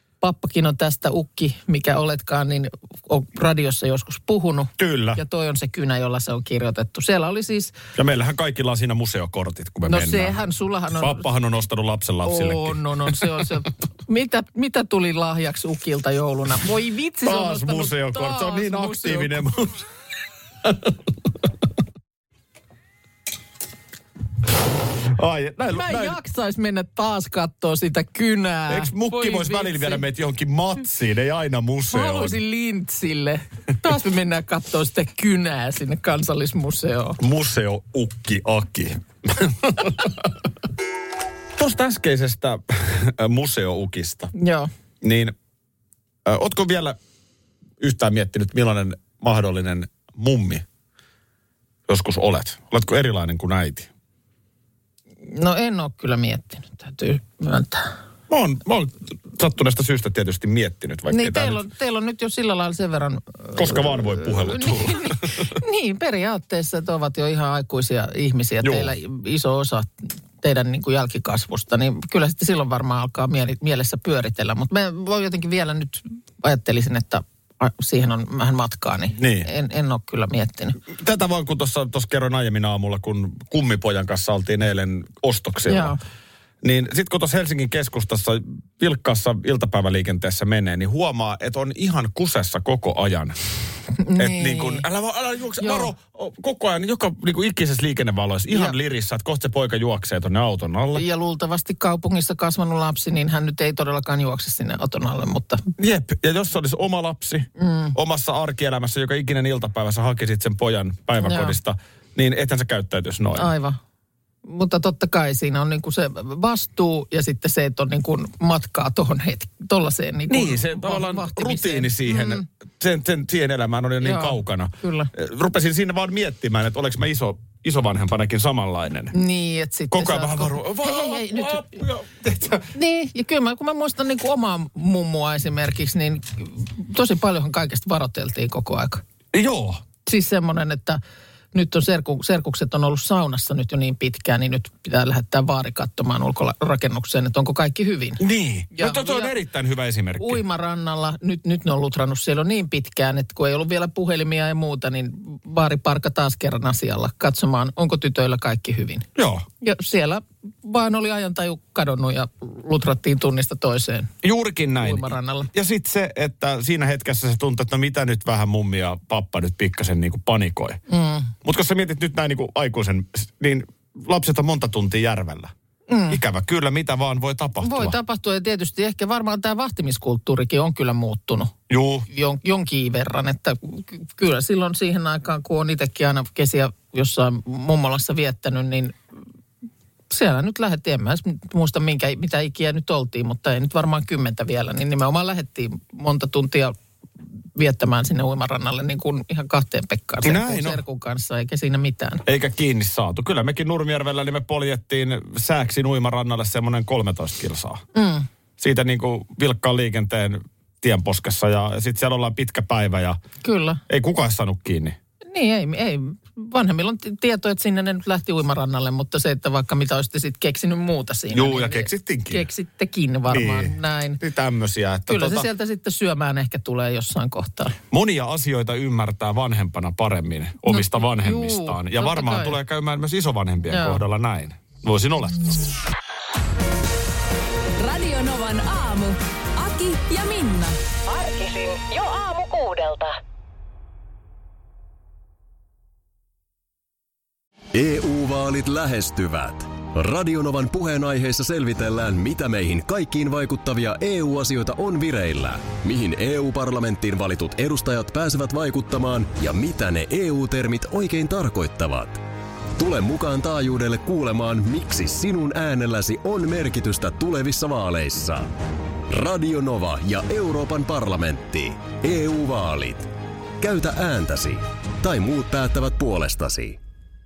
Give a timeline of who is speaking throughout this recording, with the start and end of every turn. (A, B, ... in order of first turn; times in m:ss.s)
0:00.2-0:07.7 A
0:04.8-0:05.2 B
0:07.9-0:10.4 B
0:09.8-0:11.3 A
0:11.0-0:13.4 B
0:12.2-0:19.3 A
0:17.2-0:19.8 B
0:20.6-0:20.9 B
0:25.1-0:26.2 B
0:25.7-0:30.0 A
0:28.7-0:32.4 B
0:31.9-0:37.2 A
0:37.2-0:40.3 B
0:41.6-0:44.3 B
0:44.3-0:44.7 A
0:45.0-0:45.3 B
0:46.2-0:47.0 B
0:47.8-0:50.6 B
0:51.9-0:53.9 B
0:55.2-0:57.9 A
0:58.3-1:01.6 B
1:01.1-1:20.8 A
1:03.5-1:05.4 B
1:08.6-1:08.9 B
1:19.1-1:19.5 B
1:20.9-1:26.0 B
1:25.7-1:26.0 A
1:26.6-1:33.4 B
1:34.0-1:34.8 A
1:34.2-1:41.0 B
1:35.6-1:35.9 A
1:40.9-1:45.6 A
1:45.8-1:53.5 B
1:47.6-1:47.9 A
1:51.2-1:51.5 A
1:53.4-1:53.8 A
1:54.4-2:02.4 A
2:00.3-2:09.1 B
2:04.0-2:05.1 A
2:09.1-2:11.7 A
2:09.9-2:12.7 B
2:12.7-2:19.0 A
2:19.3-2:19.8 B
2:20.0-2:21.0 A
2:21.5-2:29.3 A
2:28.2-2:30.4 B
2:30.2-2:39.1 A
2:39.2-2:39.4 B
2:39.6-2:44.1 A
2:44.2-2:50.8 B
2:44.8-2:45.5 A
2:50.9-2:51.3 A
2:51.4-2:55.5 B
2:55.9-2:56.2 A
2:56.1-2:58.0 B
2:57.6-3:01.5 A
3:01.7-3:02.1 B
3:02.1-3:09.0 A
3:10.1-3:16.7 A
3:17.5-3:22.2 A
3:20.2-3:20.8 B
3:22.2-3:27.8 B
3:27.9-3:28.3 A
3:28.6-3:33.2 B
3:33.4-3:33.8 A
3:33.9-3:35.0 B
3:35.3-3:44.2 A
3:41.3-3:42.5 B
3:43.3-3:45.5 B
3:45.1-3:47.8 A
3:47.9-3:55.6 B
3:50.7-3:52.6 A
3:53.6-3:54.0 A
3:57.8-4:00.8 C
4:01.1-4:03.2 D
4:07.7-4:22.2 E
4:22.8-4:28.5 E
4:29.1-4:36.8 E